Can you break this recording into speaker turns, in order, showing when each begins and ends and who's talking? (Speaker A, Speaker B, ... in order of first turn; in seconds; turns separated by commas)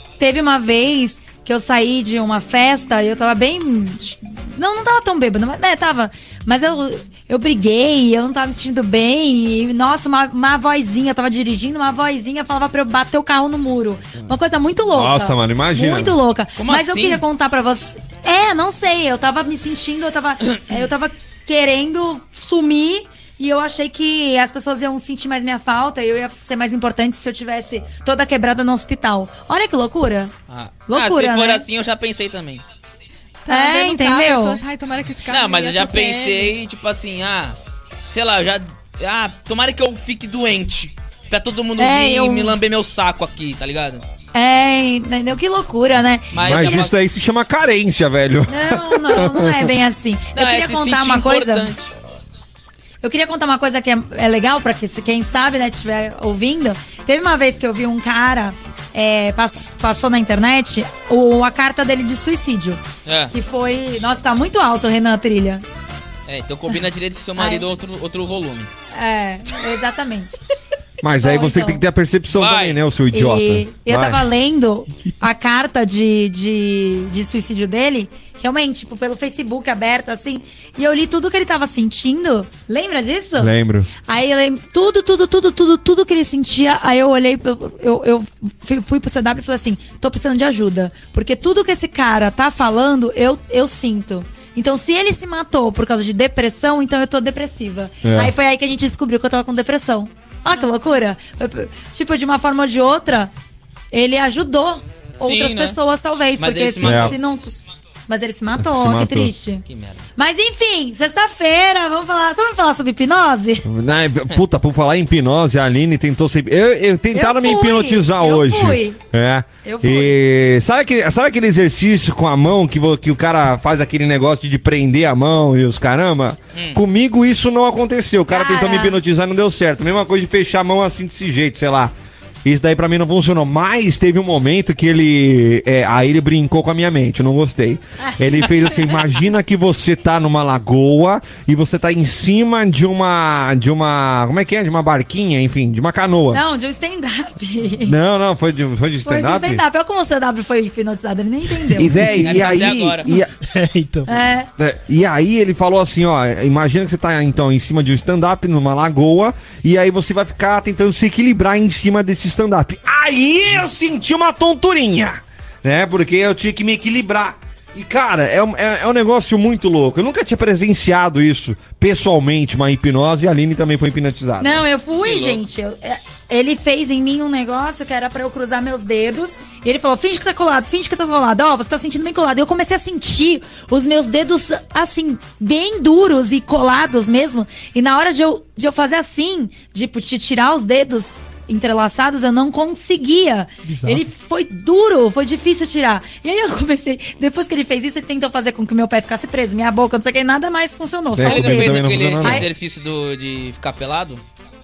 Speaker A: 0.2-30.3, Speaker B: 14.9-16.2, Speaker C: 16.6-17.2, Speaker C: 30.5-32.6, Speaker A: 30.9-31.6, Speaker D: 33.4-36.5, Speaker A: 33.5-34.6, Speaker C: 35.3-37.6, Speaker C: 38.1-44.0, Speaker A: 41.8-42.6, Speaker A: 44.3-46.3, Speaker C: 46.3-47.0, Speaker B: 46.4-49.7, Speaker A: 48.5-51.7, Speaker C: 50.3-51.9, Speaker A: 53.0-65.6, Speaker C: 63.0-63.3, Speaker C: 66.2-68.7, Speaker A: 67.4-67.7, Speaker A: 68.9-70.4, Speaker B: 71.0-74.2, Speaker A: 71.2-71.8, Speaker C: 72.3-72.8, Speaker A: 73.1-83.5, Speaker B: 83.4-83.9, Speaker A: 84.0-103.3, Speaker B: 98.0-98.3, Speaker A: 103.9-109.6, Speaker C: 105.2-105.8, Speaker C: 106.4-107.2, Speaker B: 106.8-107.2, Speaker B: 108.5-109.3, Speaker C: 109.7-110.0, Speaker A: 110.2-113.7, Speaker B: 113.6-131.9, Speaker A: 117.1-119.0, Speaker A: 119.6-120.1, Speaker C: 126.5-126.8, Speaker A: 128.3-129.0, Speaker B: 132.4-146.4, Speaker A: 146.3-148.0, Speaker B: 147.8-149.6, Speaker A: 149.0-152.0, Speaker B: 151.7-153.3, Speaker E: 151.8-152.4, Speaker C: 152.2-153.1, Speaker E: 153.1-154.2, Speaker A: 154.1-154.5, Speaker B: 154.6-174.6, Speaker A: 174.4-202.5, Speaker C: 175.0-175.4, Speaker E: 193.7-194.0, Speaker B: 201.1-202.5, Speaker C: 201.2-204.2